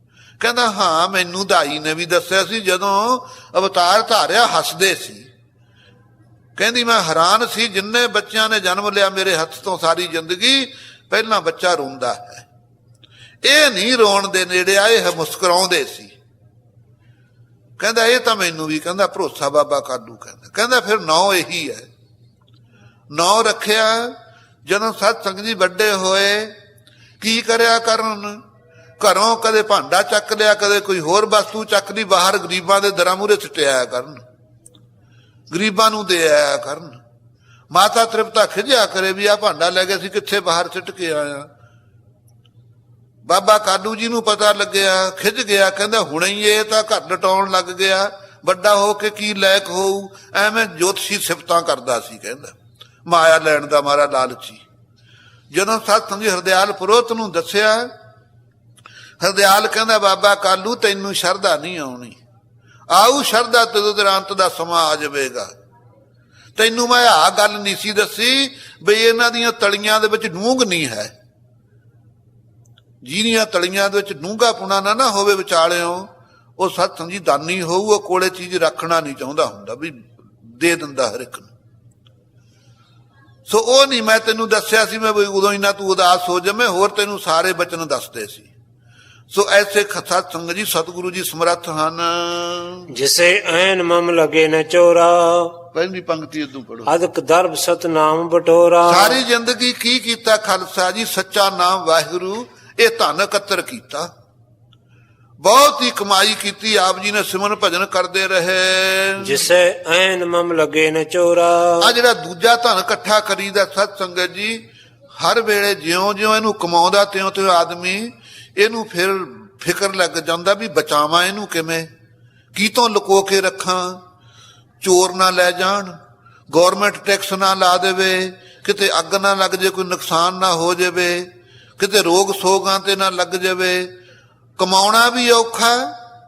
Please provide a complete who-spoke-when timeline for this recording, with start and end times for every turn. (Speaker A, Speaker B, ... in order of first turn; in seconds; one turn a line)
Speaker A: 0.4-5.3
Speaker A: 6.6-12.5
Speaker A: 13.4-16.1
Speaker A: 17.8-21.9
Speaker A: 23.1-24.1
Speaker A: 24.7-26.5
Speaker A: 27.2-28.4
Speaker A: 29.0-34.2
Speaker A: 35.5-37.0
Speaker A: 37.7-41.5
Speaker A: 43.3-52.5
Speaker A: 53.1-54.6
Speaker A: 55.5-57.9
Speaker A: 59.2-62.2
Speaker A: 62.9-65.5
Speaker A: 66.6-71.1
Speaker A: 73.0-81.5
Speaker A: 83.5-88.5
Speaker A: 89.3-92.9
Speaker B: 92.9-95.5
Speaker A: 95.7-96.9
Speaker B: 96.9-99.2
Speaker A: 98.9-104.1
Speaker A: 105.4-109.4
Speaker B: 109.2-111.9
Speaker A: 111.8-114.6
Speaker A: 115.2-121.9
Speaker A: 122.5-124.0
Speaker A: 124.8-126.0
Speaker A: 126.5-131.3
Speaker A: 131.8-133.9
Speaker A: 134.6-135.9